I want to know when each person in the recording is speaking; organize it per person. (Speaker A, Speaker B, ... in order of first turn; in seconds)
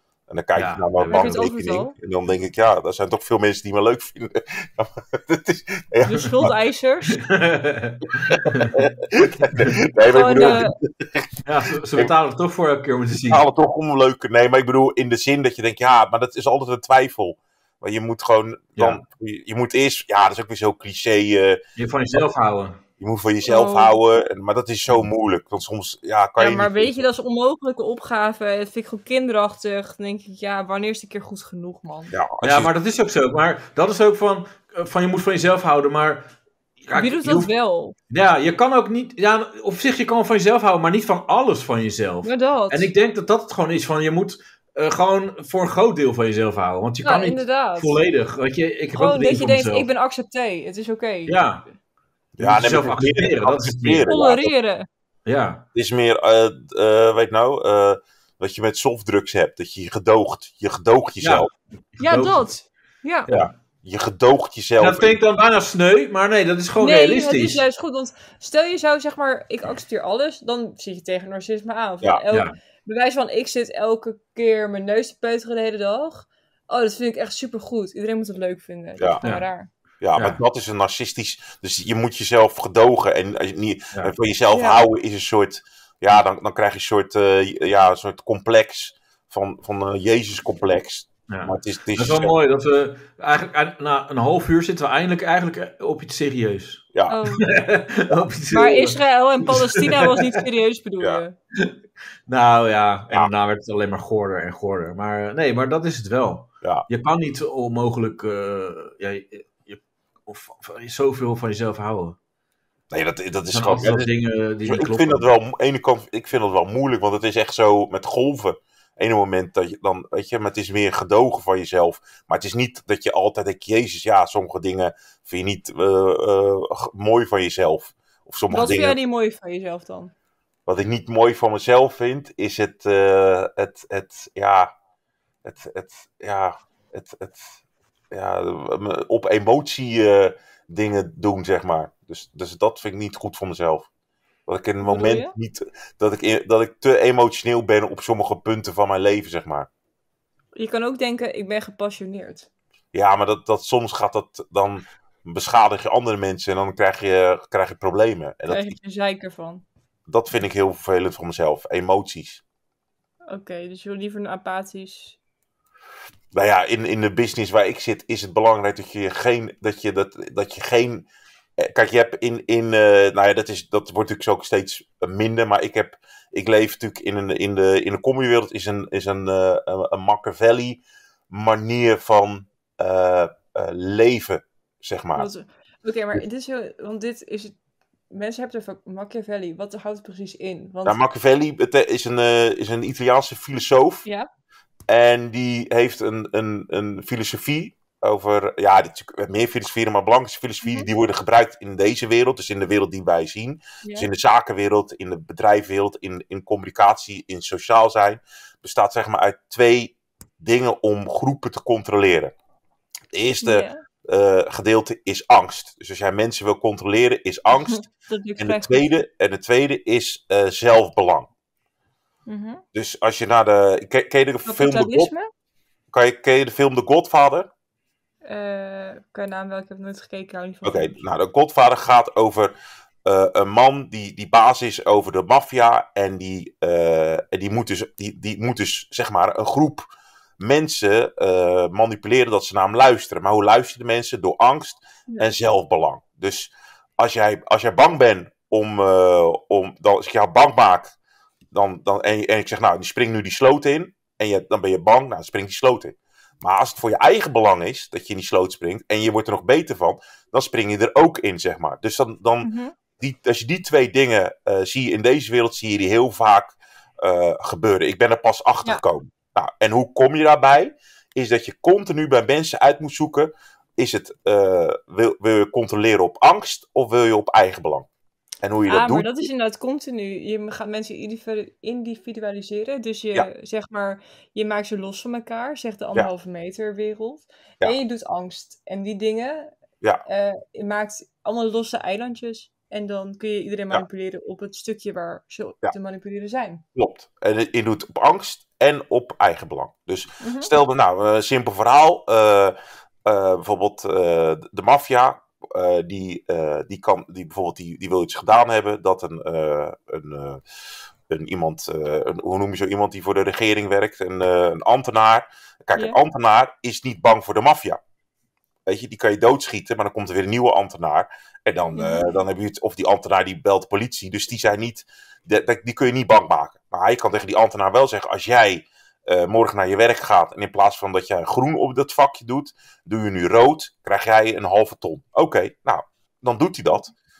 Speaker A: 0.3-6.5, 8.3-11.3, 13.3-22.2, 23.0-26.9, 32.1-32.7, 52.4-54.5, 55.7-61.5, 63.3-65.2, 80.0-92.4, 112.9-114.1, 114.6-129.0, 130.7-134.7, 135.4-137.5, 138.1-143.9, 144.5-149.7, 152.9-158.8, 160.1-162.4, 166.3-185.3, 190.8-194.1, 194.9-212.3, 213.1-217.8, 218.4-221.3, 222.7-225.1, 225.9-227.5, 230.6-232.5, 233.0-239.9, 240.4-250.9, 251.5-277.9, 278.4-279.3, 296.8-310.4, 311.1-317.8, 318.6-336.9
Speaker B: 0.6-1.4, 7.1-8.8, 9.4-9.8, 11.4-13.4, 21.8-22.8, 32.4-36.3, 36.8-37.5, 38.1-49.9, 51.3-51.6, 52.4-54.1, 55.2-55.6, 61.2-62.4, 64.8-67.6, 91.3-96.8, 97.4-100.4, 102.3-112.2, 113.5-115.3
Speaker C: 1.0-1.9, 6.0-7.2, 10.0-10.7, 23.4-23.9, 26.4-32.1, 36.9-38.0, 42.2-42.9, 47.0-48.0, 48.9-51.6, 54.0-54.9, 62.0-63.3, 66.8-79.7, 84.5-84.8, 97.1-97.5, 98.5-101.3, 128.5-130.1, 144.8-145.3, 150.6-152.5, 158.5-159.6, 163.3-165.2, 185.2-187.5, 188.1-191.0, 200.6-200.9, 203.8-204.1, 213.4-213.8, 217.5-218.9, 222.3-222.6, 224.4-225.3, 228.2-231.0, 262.4-262.7, 278.7-289.5, 290.1-296.6, 300.2-300.5, 321.7-322.1